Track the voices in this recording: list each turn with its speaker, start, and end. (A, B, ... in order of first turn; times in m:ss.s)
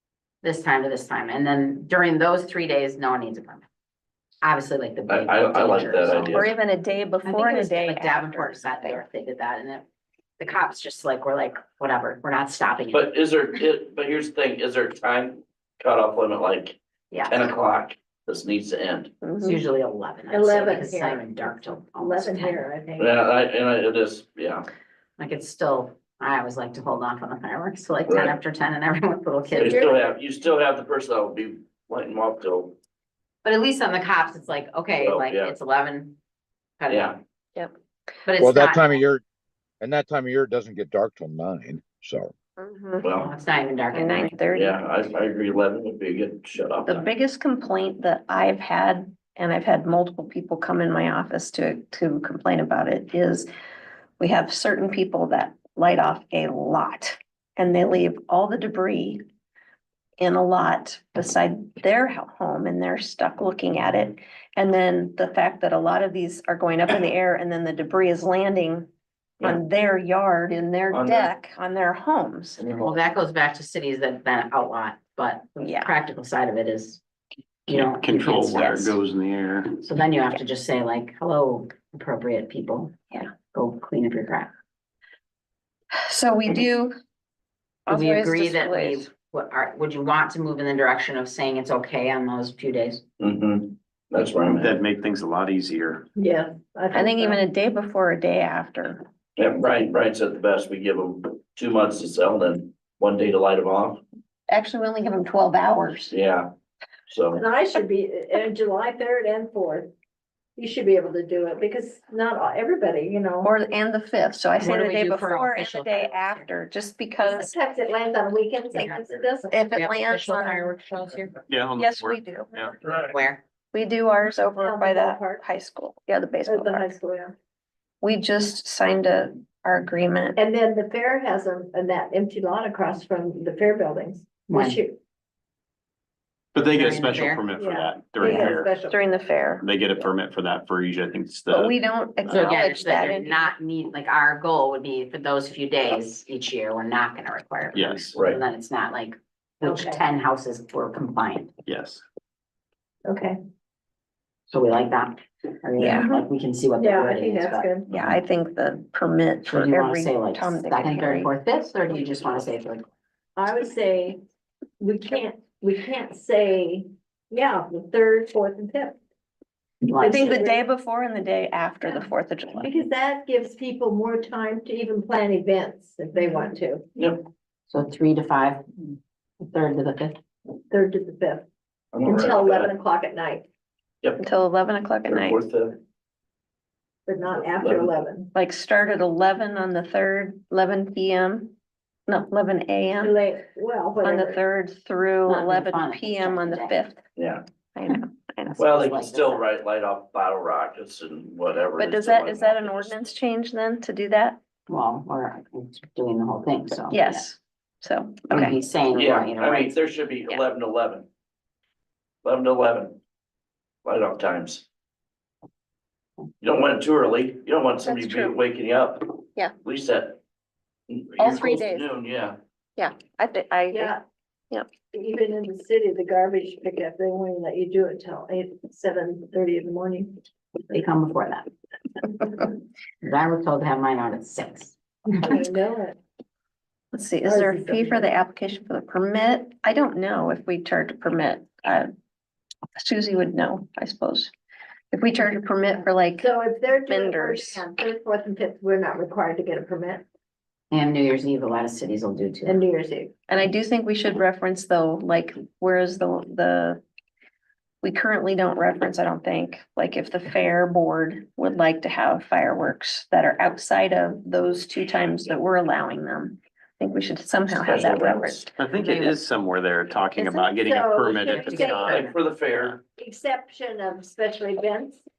0:00.4-0:03.6 A
0:04.4-0:06.5 A
0:05.1-0:06.5 B
0:06.3-0:09.0 C
0:07.2-0:09.8 A
0:10.4-0:13.1 A
0:12.9-0:19.1 B
0:17.1-0:17.5 A
0:19.2-0:19.6 C
0:19.4-0:22.6 A
0:20.3-0:23.2 D
0:23.0-0:24.7 B
0:25.2-0:29.9 A
0:28.1-0:28.4 B
0:29.5-0:30.0 D
0:29.6-0:32.8 B
0:33.4-0:36.2 A
0:35.0-0:35.5 B
0:36.8-0:37.1 A
0:36.9-0:37.2 B
0:38.2-0:39.0 A
0:38.4-0:39.2 E
0:39.8-0:42.3 E
0:42.6-0:43.1 C
0:43.0-0:43.3 B
0:43.1-0:44.4 A
0:43.9-0:44.8 C
0:44.5-0:47.1 B
0:46.8-0:53.5 C
0:54.2-0:59.2 C
1:00.2-1:08.9 C
1:09.4-1:12.6 C
1:10.9-1:11.3 B
1:12.6-1:13.0 B
1:12.8-1:17.0 A
1:15.6-1:15.9 C
1:17.7-1:18.9 A
1:17.7-1:19.7 F
1:18.5-1:19.0 C
1:19.8-1:24.5 A
1:26.0-1:26.9 C
1:27.9-1:29.1 C
1:27.9-1:33.0 A
1:33.2-1:34.8 B
1:34.4-1:36.1 F
1:36.2-1:37.4 D
1:36.9-1:39.0 C
1:39.4-1:44.0 B
1:44.5-1:46.1 C
1:46.1-1:46.5 B
1:47.1-1:47.4 B
1:47.3-1:49.9 D
1:50.6-1:53.5 D
1:53.4-1:57.6 C
1:54.6-1:56.5 A
1:57.2-1:59.6 D
1:58.7-1:59.2 A
1:59.5-2:00.7 C
1:59.7-2:01.4 A
2:01.5-2:02.7 F
2:01.8-2:02.7 C
2:02.9-2:03.4 A
2:03.7-2:06.9 C
2:04.6-2:05.4 D
2:06.4-2:07.3 D
2:08.0-2:10.4 C
2:10.4-2:15.0 D
2:14.5-2:14.8 A
2:16.5-2:18.7 F
2:16.7-2:17.4 A
2:17.6-2:19.2 D
2:18.2-2:19.7 C
2:19.6-2:21.7 F
2:21.5-2:23.5 C
2:22.3-2:31.5 A
2:27.7-2:28.1 F
2:29.6-2:30.0 D
2:31.6-2:32.0 F
2:33.0-2:33.4 D
2:34.5-2:37.7 A
2:35.8-2:36.2 C
2:36.8-2:37.9 D
2:37.9-2:41.3 C
2:39.4-2:42.9 A
2:43.4-2:44.2 D
2:44.8-2:49.0 D
2:49.8-2:50.4 A
2:50.0-2:50.6 D
2:50.0-2:52.7 C
2:52.6-2:56.8 D
2:57.0-2:57.2 B
2:57.7-3:00.2 A
3:00.7-3:01.4 D
3:01.9-3:02.7 B
3:02.0-3:03.4 D
3:04.2-3:05.4 C
3:05.0-3:05.8 B
3:07.0-3:08.3 D
3:07.6-3:07.9 B
3:08.3-3:11.5 C
3:12.1-3:13.2 C
3:13.0-3:14.4 D
3:14.0-3:17.0 C
3:15.3-3:16.8 A
3:17.2-3:17.4 B
3:17.7-3:18.7 C
3:18.5-3:19.4 A
3:18.6-3:23.0 B
3:21.8-3:24.4 C
3:24.7-3:27.3 A
3:26.9-3:28.5 C
3:28.3-3:29.8 A
3:28.9-3:31.1 B
3:32.2-3:33.0 B
3:33.8-3:34.6 B
3:36.4-3:40.2 B
3:37.8-3:38.4 C
3:40.9-3:42.4 B
3:41.2-3:41.9 C
3:42.8-3:43.9 C
3:43.7-3:44.0 D
3:44.9-3:50.1 D
3:50.7-3:51.5 A
3:53.0-3:54.7 A
3:55.1-3:56.0 D
3:56.9-4:01.9 C
3:57.2-3:58.1 D
4:02.8-4:04.3 C
4:04.9-4:06.3 C
4:06.2-4:10.0 D
4:06.9-4:07.7 C
4:10.7-4:12.6 A
4:12.4-4:13.1 D
4:13.3-4:16.8 C
4:17.8-4:29.2 C
4:27.5-4:28.5 B
4:28.6-4:32.1 F
4:30.1-4:32.0 D
4:31.3-4:32.2 A
4:32.0-4:32.8 B
4:33.0-4:35.0 D